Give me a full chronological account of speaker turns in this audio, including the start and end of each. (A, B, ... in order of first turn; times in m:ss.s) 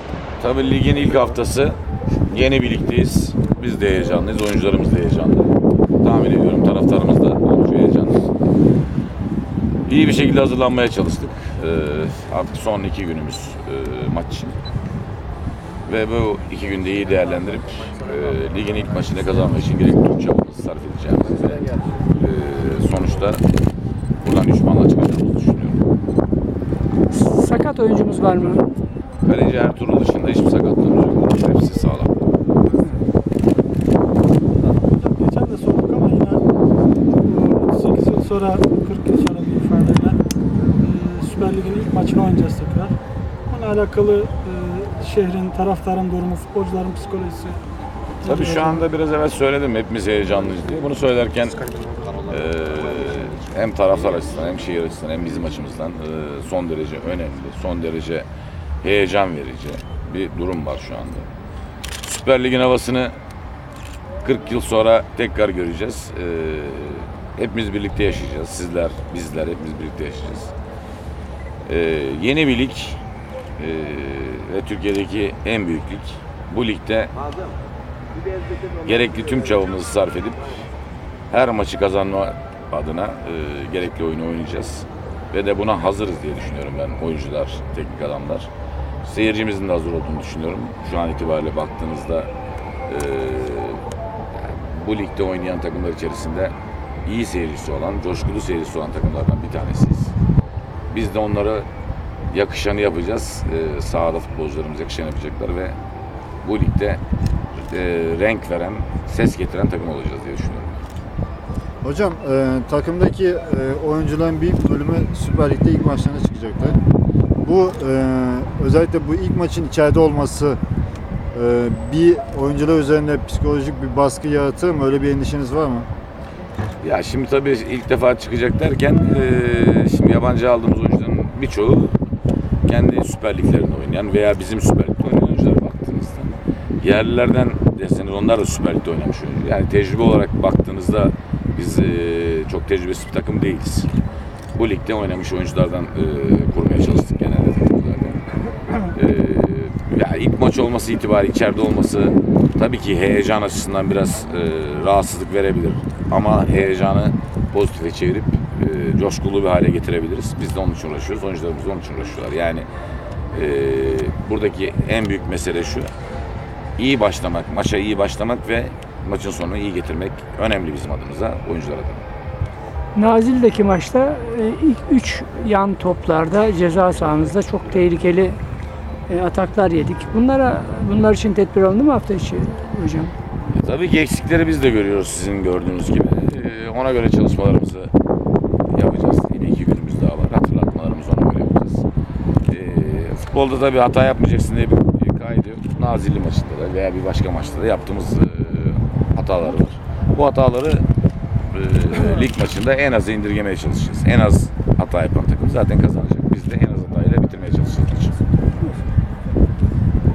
0:00.4-0:01.8 A
0:02.3-0:08.3 A
0:09.8-0:14.5 A
0:15.9-0:23.4 A
0:24.2-0:25.8 A
0:27.1-0:28.7 B
0:29.2-0:32.2 A
0:34.6-0:36.4 C
0:37.1-0:40.2 C
0:40.8-0:43.0 C
0:43.5-0:47.6 C
0:48.2-0:48.8 C
0:48.2-0:58.2 A
0:58.8-1:01.3 A
1:02.0-1:03.2 A
1:04.2-1:10.5 A
1:11.6-1:13.0 A
1:13.6-1:17.1 A
1:18.8-1:20.5 A
1:21.3-1:28.5 A
1:29.0-1:32.3 A
1:32.9-1:33.8 A
1:34.3-1:36.5 A
1:37.0-1:40.1 A
1:40.9-1:41.7 A
1:42.3-1:45.8 A
1:46.4-1:47.0 A
1:47.6-1:50.8 A
1:51.8-1:56.8 D
1:57.4-2:00.6 D
2:01.3-2:05.9 D
2:06.8-2:12.0 A
2:12.6-2:23.9 A
2:24.5-2:28.2 A
2:28.8-2:42.6 A
2:43.3-2:45.9 A
2:46.8-2:52.0 A
2:52.9-2:58.4 B
2:59.1-3:03.1 B
3:03.5-3:07.9 A
3:08.7-3:11.8 A
3:12.5-3:20.8 A
3:21.5-3:28.2 A